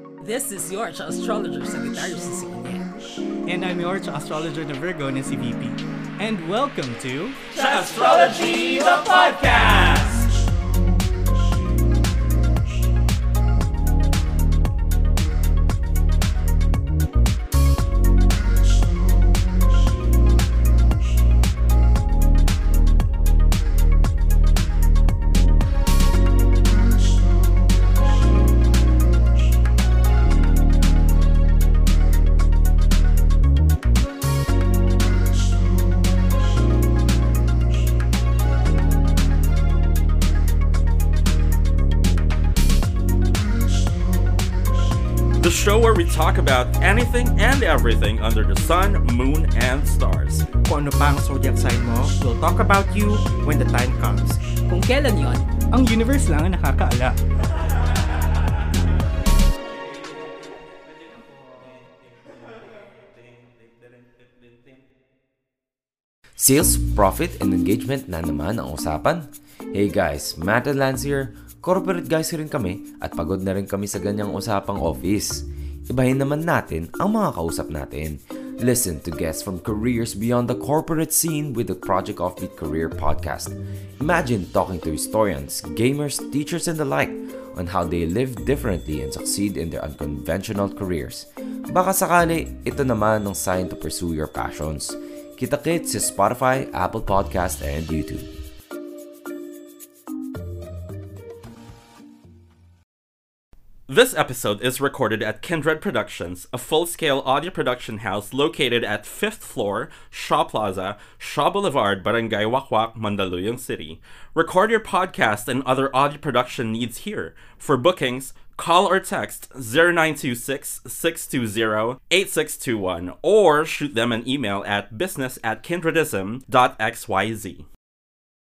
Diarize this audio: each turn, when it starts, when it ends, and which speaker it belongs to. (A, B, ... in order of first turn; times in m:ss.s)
0:00.2-0:02.9 A
0:03.4-0:07.4 B
0:07.5-0:09.7 A
0:07.5-0:10.3 C
0:45.4-0:50.5 C
0:50.6-0:54.4 D
0:54.7-0:55.5 A
0:55.7-0:57.2 B
1:06.4-1:38.3 E
1:43.9-2:07.6 C